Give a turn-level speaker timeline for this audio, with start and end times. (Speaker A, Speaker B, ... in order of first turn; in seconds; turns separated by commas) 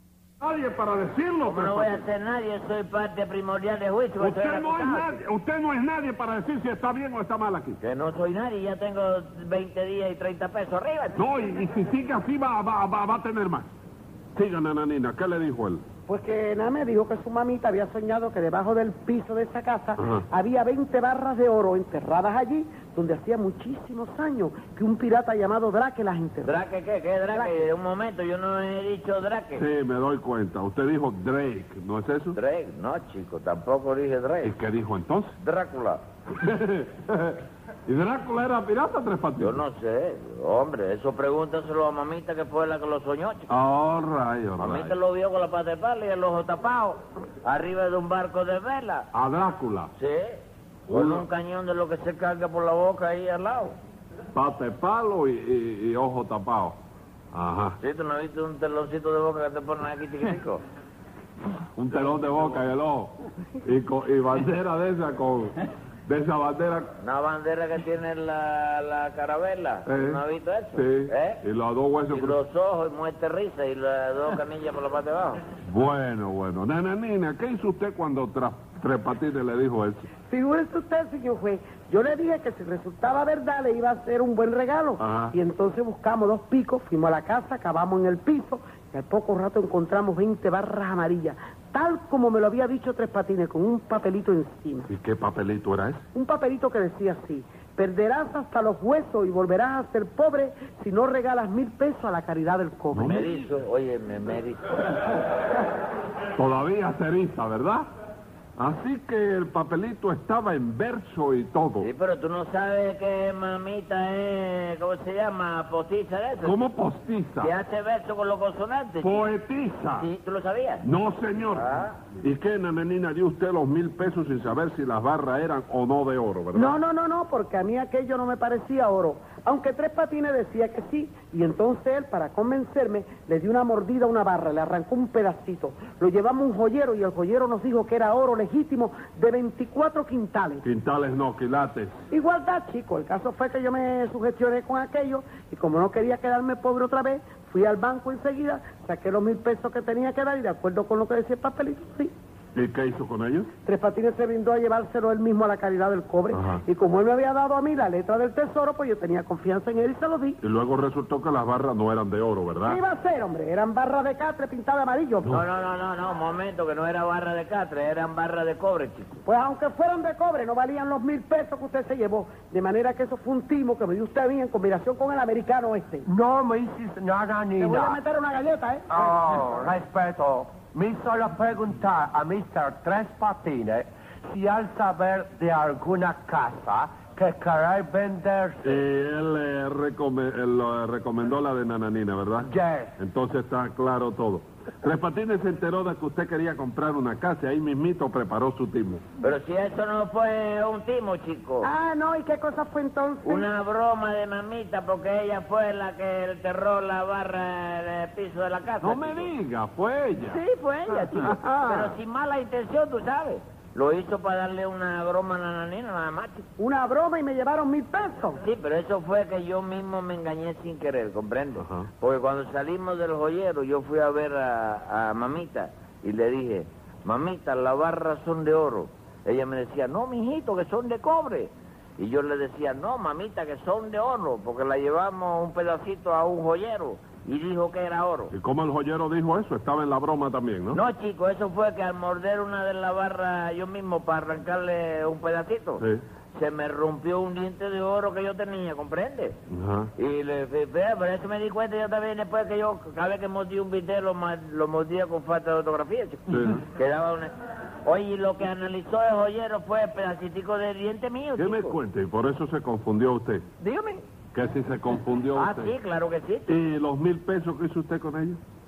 Speaker A: 0.4-2.0, Speaker B: 1.4-5.2, Speaker A: 4.2-7.8, Speaker B: 7.8-11.2, Speaker A: 11.2-13.7, Speaker A: 14.3-15.8, Speaker C: 16.1-26.6, Speaker A: 20.0-20.2, Speaker B: 26.4-29.6, Speaker C: 27.3-27.6, Speaker A: 29.6-32.4, Speaker B: 32.3-34.6, Speaker A: 34.4-35.4, Speaker B: 35.4-36.0, Speaker A: 36.3-39.6, Speaker B: 39.4-43.5, Speaker A: 43.5-45.0, Speaker B: 44.6-49.1, Speaker A: 49.1-49.9, Speaker B: 50.0-50.4, Speaker A: 50.9-51.2, Speaker B: 50.9-53.8, Speaker A: 54.3-56.8, Speaker A: 57.3-57.8, Speaker B: 57.8-60.6, Speaker A: 61.7-66.9, Speaker B: 67.0-71.4, Speaker A: 69.8-70.2, Speaker A: 70.7-72.4, Speaker B: 72.1-75.4, Speaker A: 75.6-80.1, Speaker C: 80.3-94.9, Speaker A: 85.0-85.3, Speaker A: 94.9-96.0, Speaker C: 96.1-103.2, Speaker A: 102.9-103.3, Speaker B: 103.0-104.9, Speaker A: 106.3-107.9, Speaker A: 108.6-111.9, Speaker B: 111.8-116.6, Speaker A: 116.4-117.5, Speaker B: 117.4-119.2, Speaker A: 119.0-120.1, Speaker B: 119.9-120.8, Speaker A: 120.8-126.8, Speaker B: 121.5-121.9, Speaker C: 126.5-140.6, Speaker A: 140.6-141.9, Speaker C: 142.1-152.1, Speaker A: 152.5-153.5, Speaker C: 153.6-160.4, Speaker A: 156.3-156.6, Speaker A: 160.4-162.8, Speaker C: 162.6-165.4, Speaker B: 165.3-169.2, Speaker C: 169.2-176.1, Speaker D: 176.0-178.0, Speaker C: 177.6-179.0, Speaker D: 178.9-188.8, Speaker A: 188.6-199.0, Speaker D: 192.4-192.9, Speaker B: 199.2-201.7, Speaker C: 201.6-203.5, Speaker B: 203.2-209.3, Speaker A: 208.8-212.0, Speaker B: 210.2-216.5, Speaker C: 216.6-218.4, Speaker B: 218.4-238.3, Speaker A: 221.6-221.9, Speaker A: 238.3-240.8, Speaker B: 240.7-245.8, Speaker B: 246.3-249.3, Speaker A: 249.5-249.9, Speaker B: 250.0-257.3, Speaker A: 256.3-256.6, Speaker B: 257.8-261.8, Speaker A: 261.4-263.4, Speaker B: 263.6-264.0, Speaker A: 264.3-265.7, Speaker B: 265.3-266.6, Speaker A: 266.5-268.4